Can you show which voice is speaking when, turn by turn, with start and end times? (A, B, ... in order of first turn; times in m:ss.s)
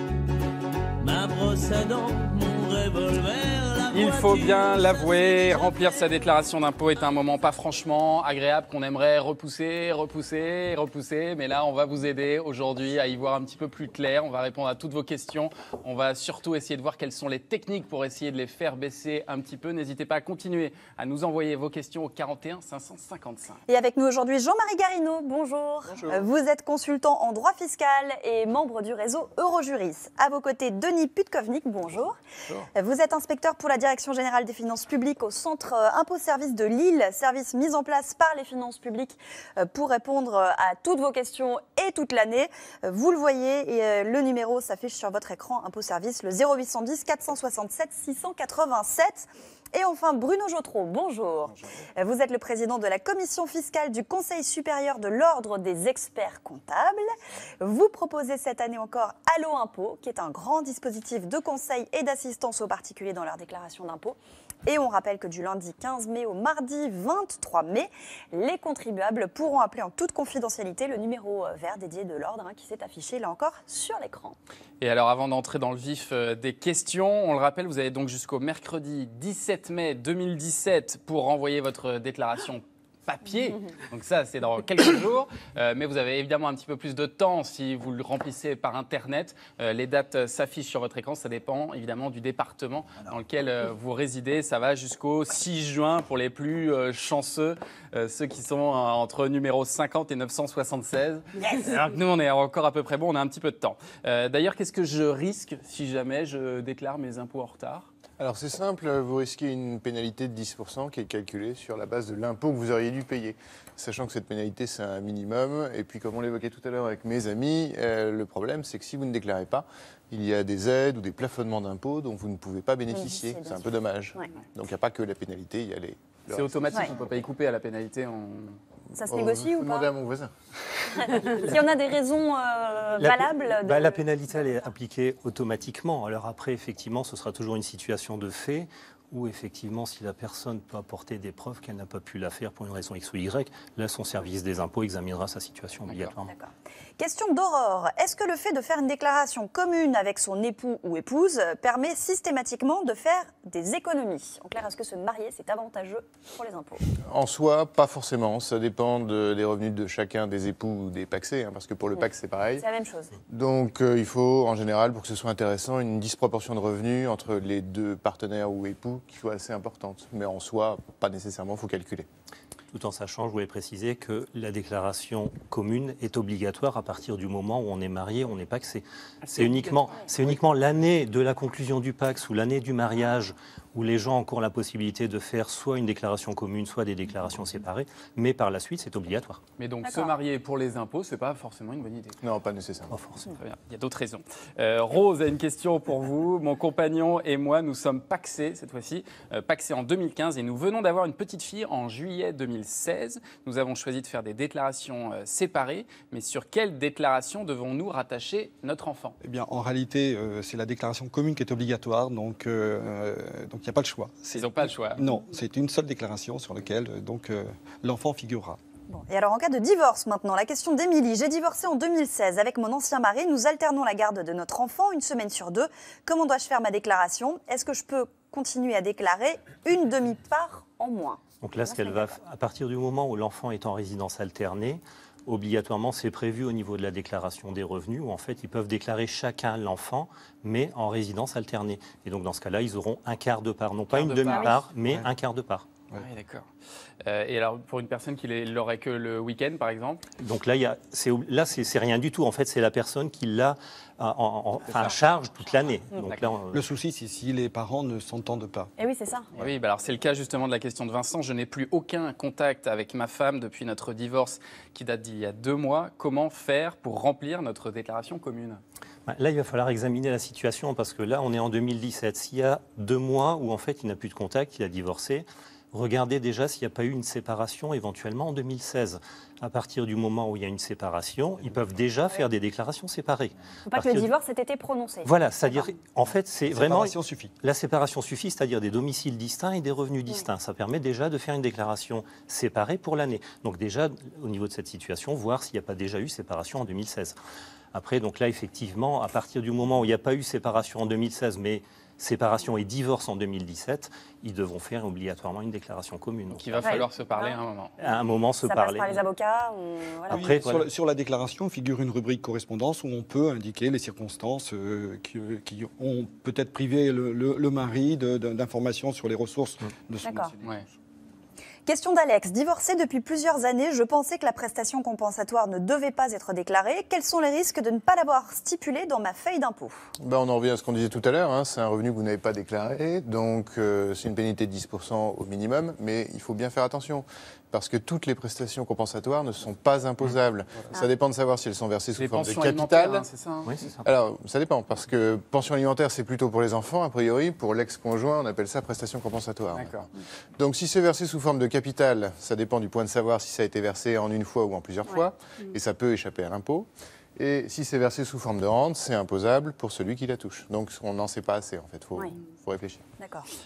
0:01.0-0:06.2 A
0:03.9-0:23.6 B
0:23.7-0:32.2 C
0:25.9-0:26.3 D
0:31.9-0:32.7 D
0:32.7-0:57.0 C
0:57.6-1:14.4 C
1:14.8-1:47.9 B
1:48.2-2:07.1 D
2:02.9-2:04.3 C
2:06.3-2:08.6 B
2:09.0-2:09.9 C
2:09.1-2:10.3 D
2:11.0-2:14.6 C
2:11.0-2:11.5 D
2:13.0-2:26.3 E
2:25.9-2:26.2 B
2:26.3-2:36.8 C
2:37.1-2:42.7 D
2:42.0-2:43.1 C
2:43.3-2:52.1 D
2:52.7-3:09.4 E
3:09.6-3:12.2 B
3:09.8-3:10.1 C
3:12.2-3:12.9 D
3:12.9-3:13.3 E
3:13.4-3:29.2 B
3:29.2-3:38.6 F
3:34.3-3:35.0 B
3:38.9-3:52.1 C
3:51.4-4:05.7 E
4:03.9-4:04.6 B
4:04.3-4:04.5 C
4:06.0-4:06.5 B
4:07.0-4:10.0 B
4:10.2-4:16.6 E
4:14.7-4:15.0 B
4:16.5-4:18.7 F
4:18.8-4:19.3 C
4:19.4-4:28.6 B
4:29.1-4:44.1 E
4:43.7-4:45.7 C
4:45.0-4:57.2 E
4:46.5-4:47.3 F
4:57.7-5:06.9 E
5:06.3-5:07.8 B
5:06.6-5:07.4 C
5:07.8-5:09.0 E
5:08.4-5:10.2 C
5:10.1-5:10.7 E
5:10.1-5:20.7 F
5:20.0-5:20.3 C
5:21.7-5:29.9 C
5:30.0-5:43.1 D
5:42.0-5:43.5 B
5:43.4-5:43.8 E
5:43.8-6:02.8 D
5:49.5-5:49.8 B
6:03.0-6:03.3 C